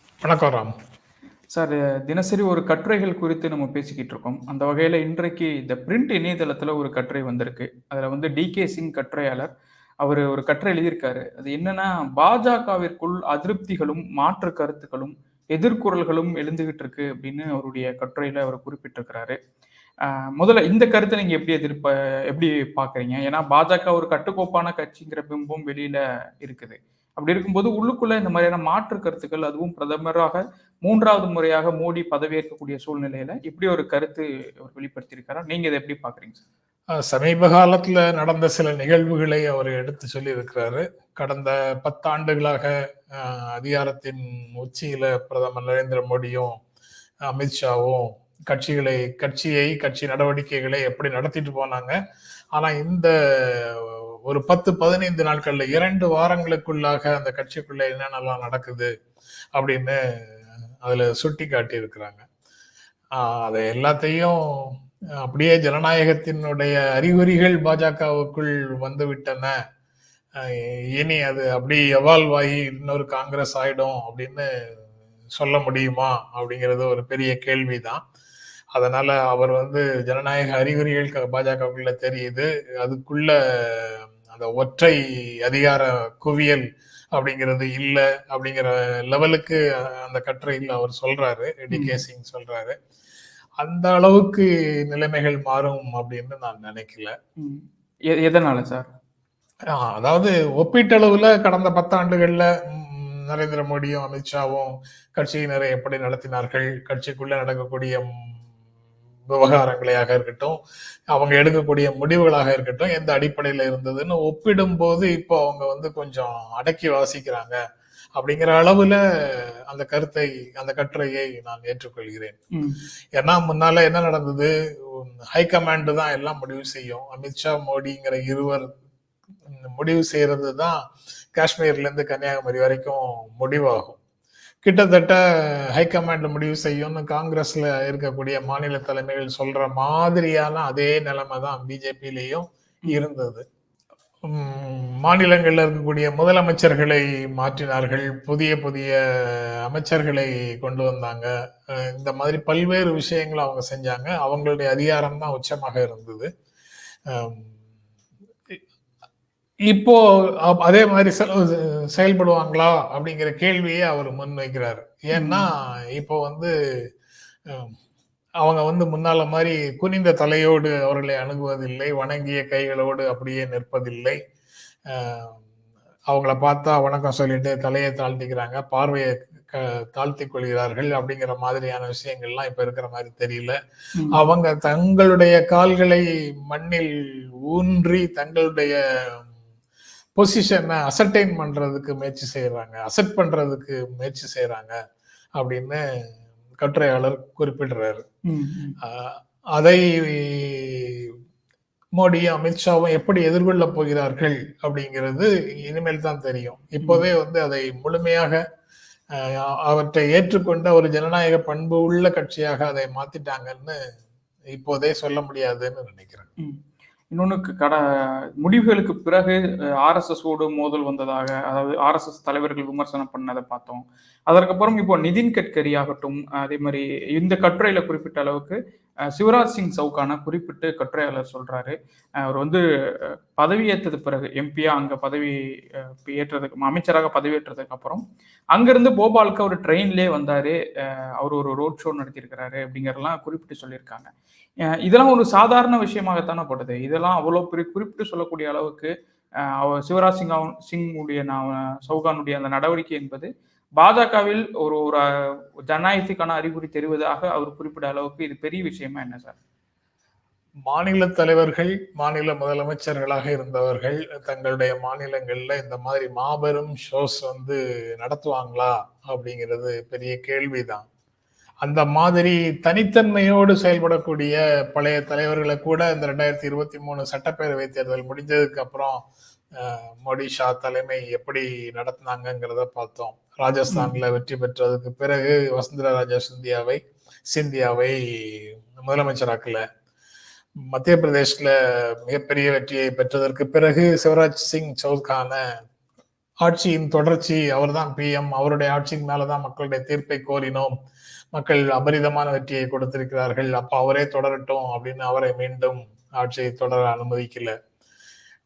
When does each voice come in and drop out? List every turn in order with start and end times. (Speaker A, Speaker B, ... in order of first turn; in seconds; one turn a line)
Speaker A: 0.2-0.7
Speaker B: 1.5-9.5
Speaker B: 10.0-19.4
Speaker B: 20.0-36.4
Speaker A: 37.0-46.5
Speaker A: 47.3-52.0
Speaker A: 52.5-58.9
Speaker A: 59.5-60.0
Speaker A: 60.8-62.2
Speaker A: 63.2-69.5
Speaker A: 70.4-74.5
Speaker A: 75.3-78.0
Speaker A: 78.7-92.8
Speaker B: 91.7-92.0
Speaker A: 93.6-97.1
Speaker B: 97.4-98.9
Speaker A: 99.7-108.1
Speaker A: 109.3-110.6
Speaker A: 111.1-117.5
Speaker A: 118.2-122.4
Speaker A: 123.2-128.7
Speaker A: 129.5-130.8
Speaker A: 131.3-134.0
Speaker A: 134.6-143.4
Speaker A: 144.2-156.3
Speaker A: 157.1-157.5
Speaker A: 159.7-166.5
Speaker B: 165.1-165.4
Speaker A: 167.5-167.7
Speaker A: 168.4-174.2
Speaker A: 174.9-175.4
Speaker A: 176.1-183.6
Speaker A: 184.1-189.3
Speaker A: 190.2-194.7
Speaker A: 195.3-195.8
Speaker A: 196.6-198.0
Speaker B: 198.3-198.8
Speaker A: 198.8-201.1
Speaker A: 202.0-208.4
Speaker A: 209.1-213.8
Speaker A: 214.5-216.3
Speaker B: 217.1-217.8
Speaker B: 218.4-228.6
Speaker B: 229.1-238.0
Speaker B: 238.5-244.1
Speaker B: 244.7-248.9
Speaker B: 249.4-255.0
Speaker B: 255.7-259.4
Speaker A: 260.7-270.9
Speaker A: 271.6-279.0
Speaker A: 279.6-289.6
Speaker A: 290.7-295.4
Speaker A: 296.4-300.7
Speaker A: 301.3-307.5